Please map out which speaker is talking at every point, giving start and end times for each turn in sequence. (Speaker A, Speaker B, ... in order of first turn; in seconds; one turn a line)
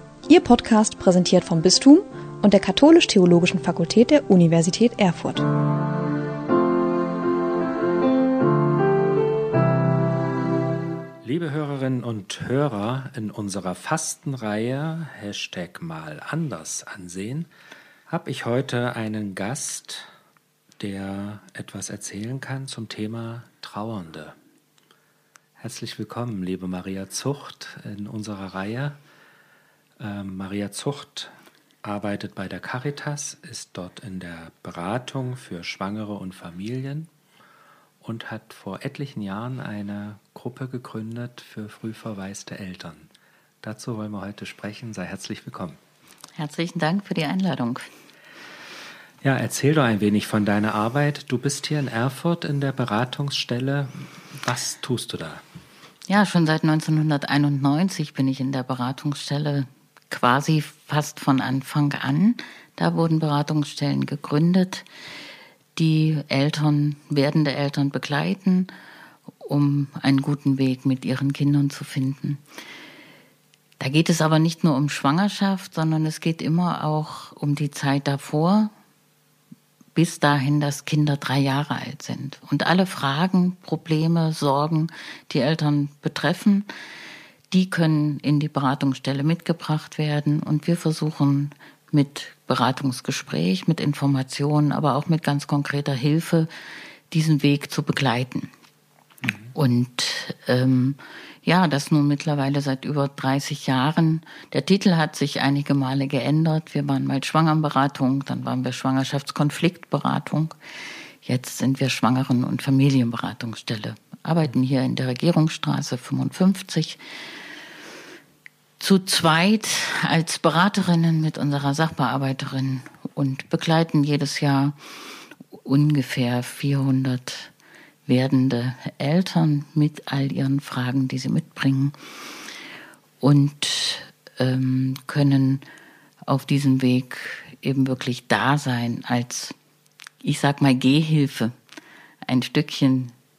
Speaker A: 0.3-5.5
Speaker B: 11.2-17.5
Speaker B: 18.1-20.1
Speaker B: 20.8-24.4
Speaker B: 25.6-29.0
Speaker B: 30.0-37.1
Speaker B: 38.0-43.1
Speaker B: 43.6-45.8
Speaker C: 46.4-47.9
Speaker B: 49.2-55.4
Speaker C: 56.1-64.9
Speaker C: 65.8-68.7
Speaker C: 69.4-72.4
Speaker C: 73.8-78.7
Speaker C: 80.0-86.7
Speaker C: 87.5-96.5
Speaker C: 97.1-98.5
Speaker B: 99.2-99.5
Speaker C: 99.5-110.5
Speaker C: 111.2-117.0
Speaker C: 118.8-124.8
Speaker C: 125.5-127.5
Speaker C: 128.1-132.0
Speaker C: 133.2-135.6
Speaker C: 136.3-139.6
Speaker C: 140.2-141.5
Speaker C: 142.2-143.1